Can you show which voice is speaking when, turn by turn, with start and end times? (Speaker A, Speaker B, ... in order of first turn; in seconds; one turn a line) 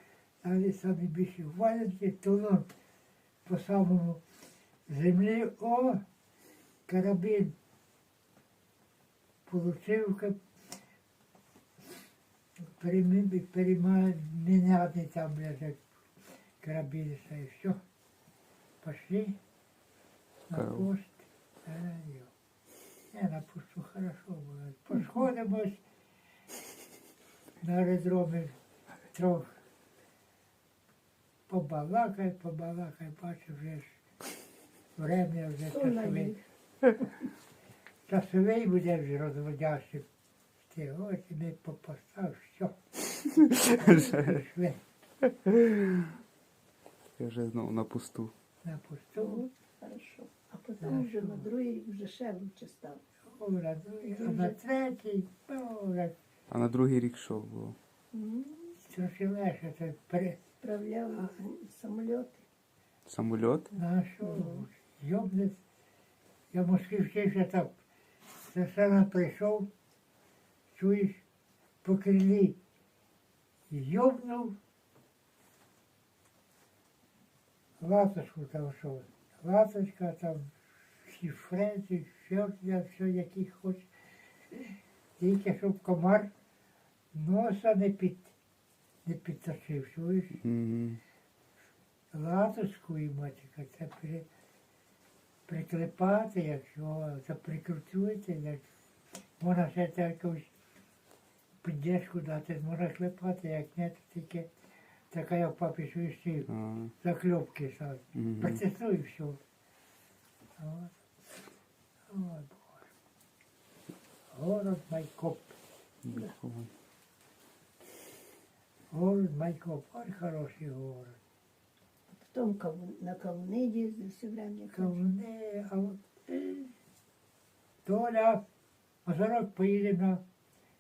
Speaker A: 0.4-2.7
Speaker A: 3.4-4.2
Speaker A: 4.9-6.0
Speaker A: 6.9-7.5
Speaker A: 9.5-10.4
Speaker A: 12.8-15.8
Speaker A: 16.6-17.8
Speaker A: 18.8-19.4
Speaker A: 20.5-22.3
Speaker B: 20.6-20.9
Speaker A: 23.1-25.8
Speaker A: 27.6-28.6
Speaker A: 29.1-29.6
Speaker A: 31.5-34.0
Speaker A: 35.0-36.3
Speaker C: 35.6-36.4
Speaker A: 38.1-40.0
Speaker A: 40.7-42.8
Speaker A: 43.4-44.8
Speaker B: 47.2-48.3
Speaker A: 48.6-49.5
Speaker C: 49.2-53.0
Speaker A: 50.8-51.5
Speaker A: 53.3-56.1
Speaker C: 54.0-54.5
Speaker B: 56.5-57.8
Speaker C: 58.1-58.8
Speaker A: 58.8-60.4
Speaker C: 60.6-62.5
Speaker B: 63.1-63.7
Speaker A: 63.7-65.6
Speaker C: 64.2-64.7
Speaker A: 66.5-67.7
Speaker A: 68.4-69.7
Speaker A: 70.7-71.2
Speaker A: 71.8-72.6
Speaker A: 73.7-74.6
Speaker A: 77.8-83.9
Speaker A: 84.5-86.3
Speaker A: 87.1-88.3
Speaker A: 89.0-90.4
Speaker B: 90.4-91.0
Speaker A: 92.1-94.3
Speaker A: 95.5-98.6
Speaker A: 99.4-100.5
Speaker A: 101.6-104.5
Speaker A: 105.1-109.4
Speaker B: 106.5-106.9
Speaker B: 108.2-108.6
Speaker A: 110.6-111.0
Speaker A: 112.1-112.9
Speaker A: 114.3-115.5
Speaker B: 116.0-116.7
Speaker A: 118.9-121.2
Speaker C: 122.1-125.0
Speaker A: 124.7-126.0
Speaker A: 127.8-128.4
Speaker A: 129.0-130.2